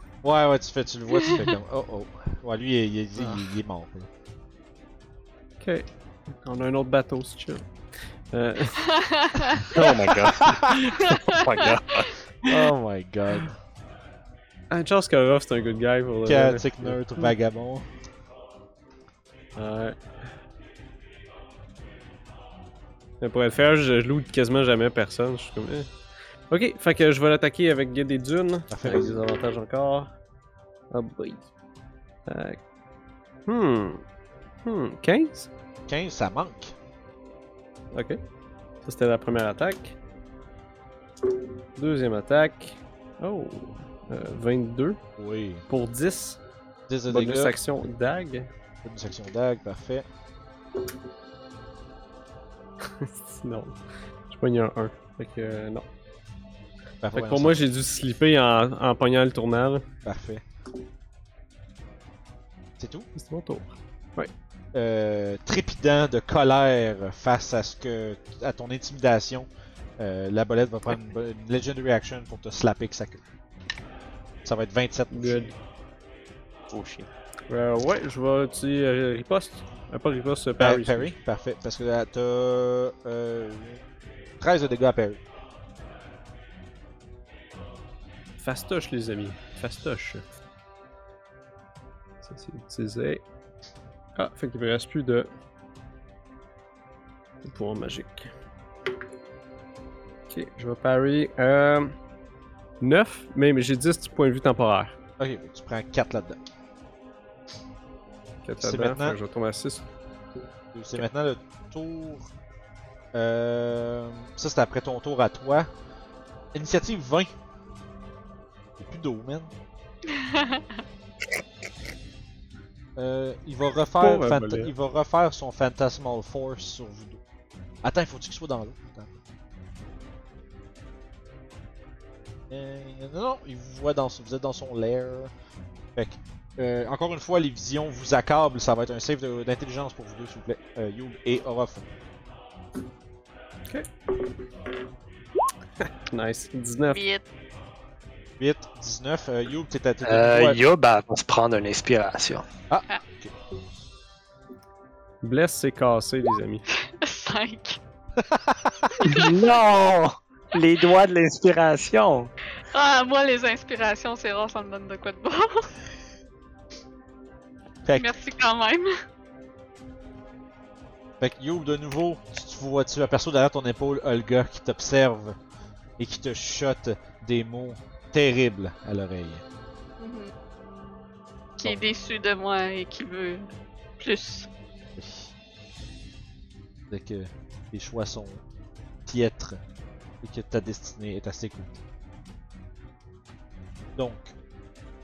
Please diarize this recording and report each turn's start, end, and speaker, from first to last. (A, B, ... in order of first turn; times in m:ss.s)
0:00.2-0:04.1 A
0:01.1-0:01.4 B
0:05.6-0:07.7 C
0:08.3-0:09.0 C
0:08.8-0:09.8 B
0:09.6-0:12.2 D
0:10.4-0:10.8 A
0:11.0-0:12.0 B
0:12.5-0:13.6 A
0:14.7-0:17.3 C
0:16.2-0:17.8 A
0:19.6-0:20.0 C
0:23.2-0:25.9 C
0:26.5-0:30.1 C
0:28.7-0:29.2 A
0:30.9-0:31.4 C
0:32.2-0:32.6 C
0:33.5-0:34.0 C
0:34.6-0:35.5 C
0:35.9-0:36.7 A
0:37.9-0:38.2 C
0:38.8-0:39.9 C
0:41.8-0:45.0 C
0:45.2-0:45.6 A
0:45.7-0:46.4 C
0:46.9-0:47.5 A
0:47.1-0:48.5 C
0:48.8-0:50.0 A
0:52.8-0:53.8 C
0:54.3-0:55.9 C
0:57.0-0:57.6 A
0:57.1-0:59.8 C
1:00.0-1:00.4 A
1:02.8-1:03.1 A
1:03.1-1:04.3 C
1:04.7-1:09.5 A
1:10.0-1:13.2 A
1:14.4-1:15.5 A
1:15.1-1:15.5 C
1:16.7-1:17.1 D
1:17.5-1:21.1 C
1:20.6-1:23.8 A
1:24.4-1:25.2 A
1:28.4-1:30.2 C
1:32.2-1:33.2 C
1:34.1-1:35.3 C
1:37.4-1:38.3 C
1:40.3-1:41.9 C
1:42.8-1:45.0 C
1:45.2-1:46.4 A
1:48.4-1:49.8 C
1:48.6-1:49.2 A
1:50.7-1:52.3 A
1:53.1-1:55.7 A
1:56.5-1:57.3 A
1:58.8-1:59.5 A
2:00.1-2:00.8 B
2:03.0-2:07.2 A
2:04.0-2:04.7 C
2:07.8-2:09.2 A
2:12.5-2:15.3 A
2:15.9-2:21.9 A
2:26.1-2:27.0 C
2:26.9-2:27.2 B
2:28.4-2:30.6 A
2:30.0-2:32.4 E
2:32.7-2:33.3 A
2:35.2-2:36.6 C
2:36.8-2:37.8 B
2:38.2-2:38.9 A
2:38.9-2:39.3 B
2:39.0-2:42.3 E
2:42.6-2:45.7 B
2:48.0-2:48.9 B
2:51.2-2:55.4 A
2:56.0-2:59.4 A
3:00.0-3:00.3 B
3:01.6-3:04.5 B
3:05.0-3:05.3 A
3:06.9-3:08.4 A
3:09.0-3:09.6 A
3:10.2-3:11.8 A
3:14.0-3:14.3 A